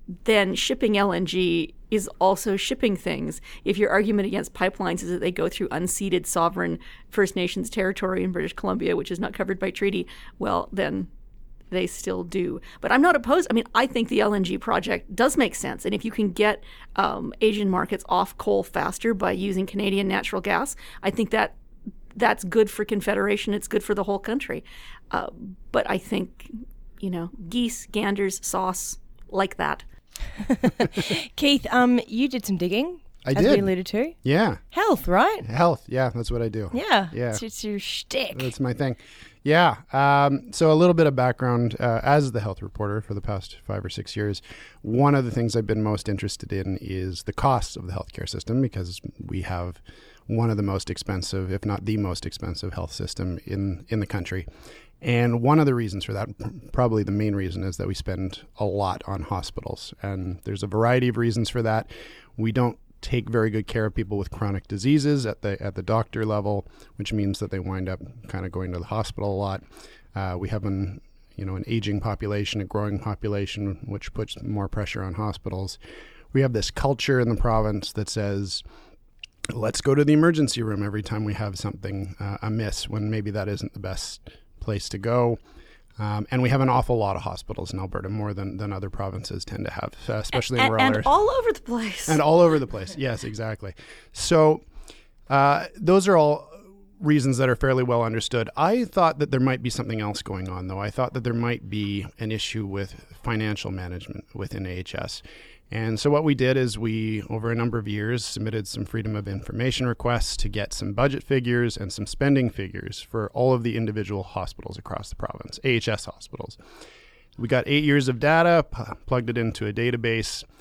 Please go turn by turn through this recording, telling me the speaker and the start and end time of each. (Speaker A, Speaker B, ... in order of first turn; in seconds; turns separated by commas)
Speaker A: 0.2-11.1, Speaker A: 11.7-21.6, Speaker A: 22.2-29.9, Speaker B: 30.4-34.2, Speaker C: 33.2-34.6, Speaker B: 34.7-35.5, Speaker C: 35.5-37.4, Speaker B: 36.7-38.5, Speaker C: 38.3-54.5, Speaker C: 55.0-69.6, Speaker C: 70.1-75.8, Speaker C: 76.3-78.6, Speaker C: 79.5-85.4, Speaker C: 86.0-91.1, Speaker A: 90.3-92.2, Speaker C: 92.1-94.7, Speaker C: 95.3-116.6, Speaker C: 117.4-120.5